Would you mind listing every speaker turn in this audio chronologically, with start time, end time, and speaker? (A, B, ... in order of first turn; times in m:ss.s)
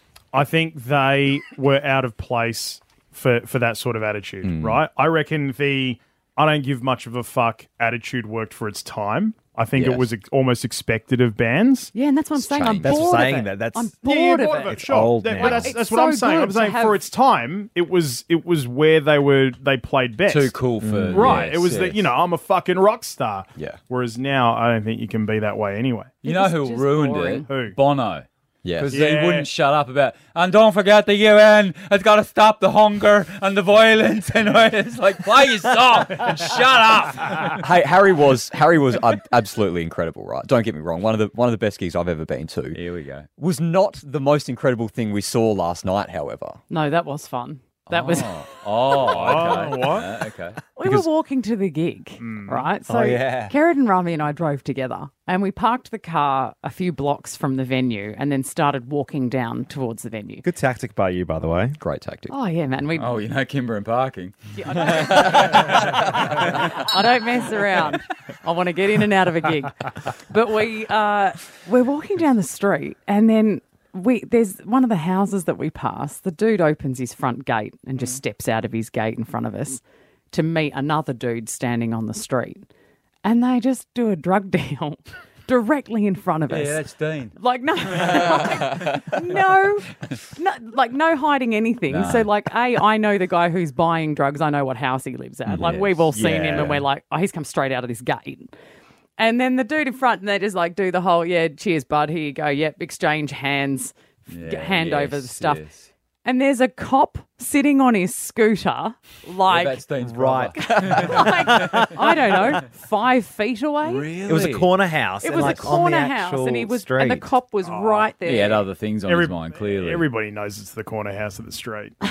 0:00.3-0:11.9 A
0:04.4-0:04.8 B
0:09.7-0:10.1 B
0:11.9-0:17.0 C
0:12.5-0:13.1 B
0:12.7-0:14.0 D
0:14.0-0:20.6 A
0:14.7-0:15.8 D
0:20.3-0:22.0 E
0:20.8-0:21.4 D
0:21.1-0:26.2 A
0:23.5-0:23.8 B
0:26.2-0:27.5 C
0:26.2-0:37.6 E
0:27.4-0:27.8 A
0:28.6-0:29.0 B
0:28.9-0:29.5 A
0:37.5-0:42.8 B
0:42.7-0:43.3 E
0:43.4-0:46.6 B
0:46.7-0:48.3 C
0:47.9-0:50.6 E
0:49.0-0:50.1 A
0:50.8-1:00.4 C
0:52.2-0:52.7 A
0:52.9-0:53.5 D
0:53.0-0:53.4 B
1:00.4-1:01.8 D
1:01.8-1:02.3 B
1:02.3-1:03.1 C
1:03.0-1:06.7 E
1:04.5-1:19.8 C
1:20.3-1:22.6 C
1:23.2-1:26.8 C
1:26.5-1:27.4 E
1:27.4-1:38.5 C
1:31.9-1:32.3 E
1:35.5-1:36.8 E
1:39.2-1:45.6 C
1:44.3-1:45.9 E
1:46.2-1:49.8 C
1:49.5-1:51.9 E
1:50.0-1:51.9 D
1:50.6-1:54.0 C
1:53.8-1:54.7 E
1:54.2-1:57.3 D
1:55.2-1:58.6 C
1:57.6-1:58.1 A
1:58.2-2:00.1 E
1:59.0-2:02.0 A